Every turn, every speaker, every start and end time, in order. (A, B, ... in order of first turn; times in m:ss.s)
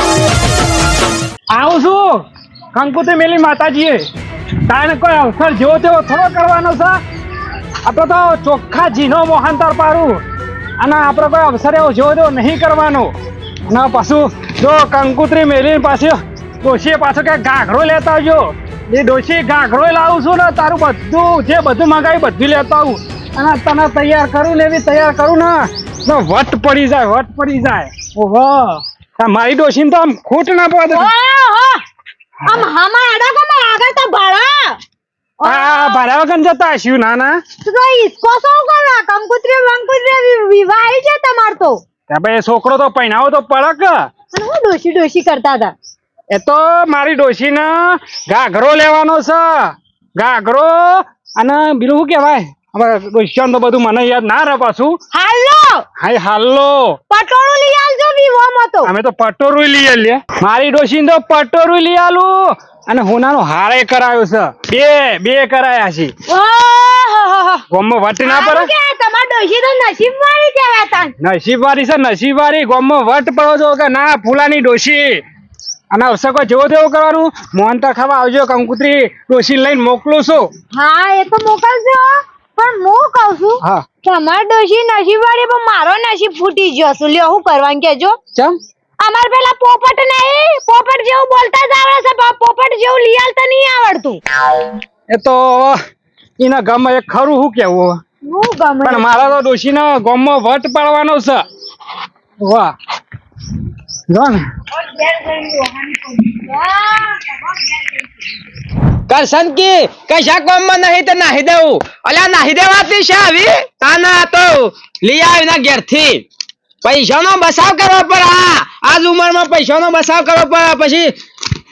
0:01.5-0:04.0 A
0:04.6-0:07.0 A
0:07.8-0:10.2 A
0:10.8-0:13.1 A
0:13.7-0:31.1 A
0:30.9-0:31.8 B
0:32.4-0:34.8 B
0:35.4-0:36.0 B
0:35.4-0:37.4 A
0:37.6-0:41.8 B
0:42.1-0:44.1 A
0:44.3-0:45.7 B
0:46.3-0:55.0 A
0:55.1-0:55.8 B
0:56.0-0:57.0 A
0:57.1-0:58.9 B
0:58.8-1:06.1 A
1:06.3-1:07.6 B
1:07.7-1:08.7 A
1:08.2-1:11.1 B
1:11.2-1:15.2 A
1:15.9-1:20.5 A
1:20.7-1:28.2 B
1:29.0-1:34.2 B
1:35.1-1:35.8 A
1:36.4-1:38.0 A
1:38.2-1:39.4 B
1:38.8-1:41.4 A
1:42.4-1:42.7 A
1:44.1-1:44.4 A
1:44.7-1:48.3 B
1:49.1-1:56.2 C
1:56.8-2:01.1 C